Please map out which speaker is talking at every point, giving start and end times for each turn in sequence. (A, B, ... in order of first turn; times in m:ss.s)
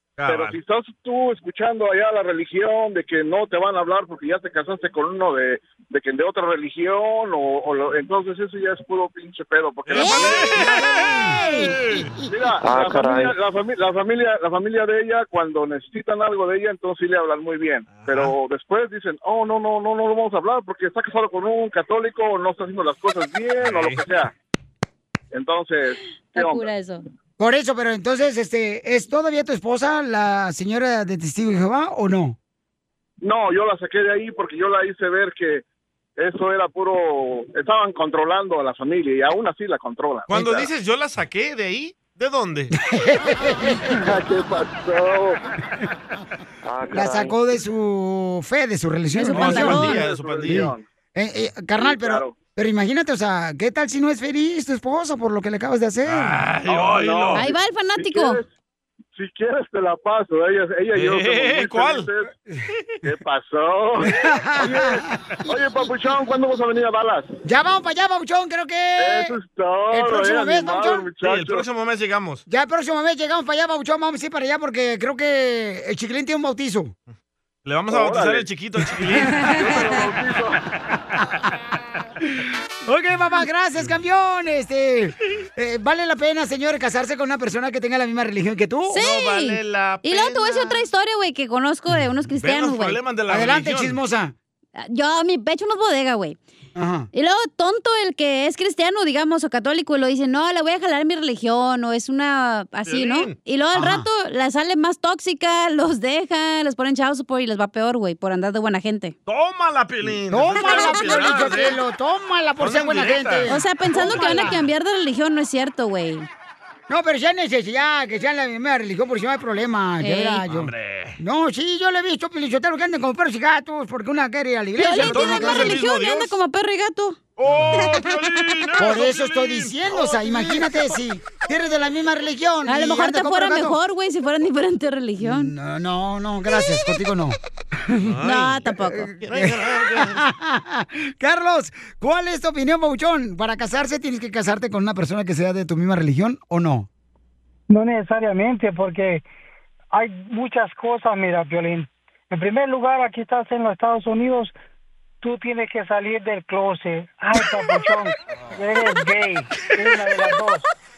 0:00.2-0:00.6 A
0:00.3-0:10.6 B
0:09.9-0:11.1 A
0:09.9-0:11.8 C
0:11.0-0:11.4 D
0:11.6-0:12.1 A
0:12.3-0:24.3 B
0:17.9-0:18.4 A
0:23.6-0:24.0 A
0:25.3-0:26.7 B
0:26.3-0:27.0 C
0:27.4-0:32.4 D
0:33.2-0:35.6 B
0:36.2-0:40.7 B
0:40.3-0:42.7 A
0:42.9-0:44.0 D
0:43.9-0:45.4 B
0:46.9-0:49.9 D
0:49.2-0:50.1 C
0:49.2-0:50.7 A
0:49.8-0:50.8 B
0:50.5-0:56.4 D
0:51.8-0:52.4 B
0:56.1-0:57.5 A
0:56.7-0:58.4 B
0:57.4-0:58.4 C
0:59.2-1:02.3 B
1:00.9-1:02.1 A
1:03.0-1:07.4 B
1:04.1-1:05.3 D
1:07.4-1:09.4 D
1:09.0-1:11.7 B
1:09.9-1:11.1 D
1:11.2-1:12.4 A
1:12.5-1:16.9 D
1:17.6-1:20.0 A
1:17.9-1:18.5 B
1:19.5-1:20.1 C
1:19.6-1:20.6 B
1:21.1-1:21.6 A
1:22.2-1:29.0 D
1:28.9-1:33.0 C
1:28.9-1:30.9 A
1:32.4-1:34.0 A
1:33.3-1:34.4 D
1:34.8-1:36.4 C
1:36.8-1:37.1 D
1:37.1-1:49.2 C
1:42.9-1:43.4 A
1:43.7-1:44.1 D
1:49.3-1:51.8 A
1:50.3-1:54.6 D
1:50.6-1:51.4 C
1:52.6-1:53.5 A
1:53.5-1:56.3 C
1:54.1-1:54.6 A
1:56.9-2:05.8 D
2:00.0-2:00.4 C
2:00.5-2:01.2 A
2:04.8-2:07.2 C
2:04.9-2:06.4 A
2:07.4-2:11.0 A
2:07.7-2:08.2 C
2:08.8-2:13.8 D
2:12.7-2:15.5 C
2:15.2-2:18.2 D
2:18.0-2:20.3 A
2:18.2-2:19.1 C
2:18.9-2:26.9 D
2:27.7-2:29.2 E
2:29.9-2:34.6 E
2:35.2-2:40.6 E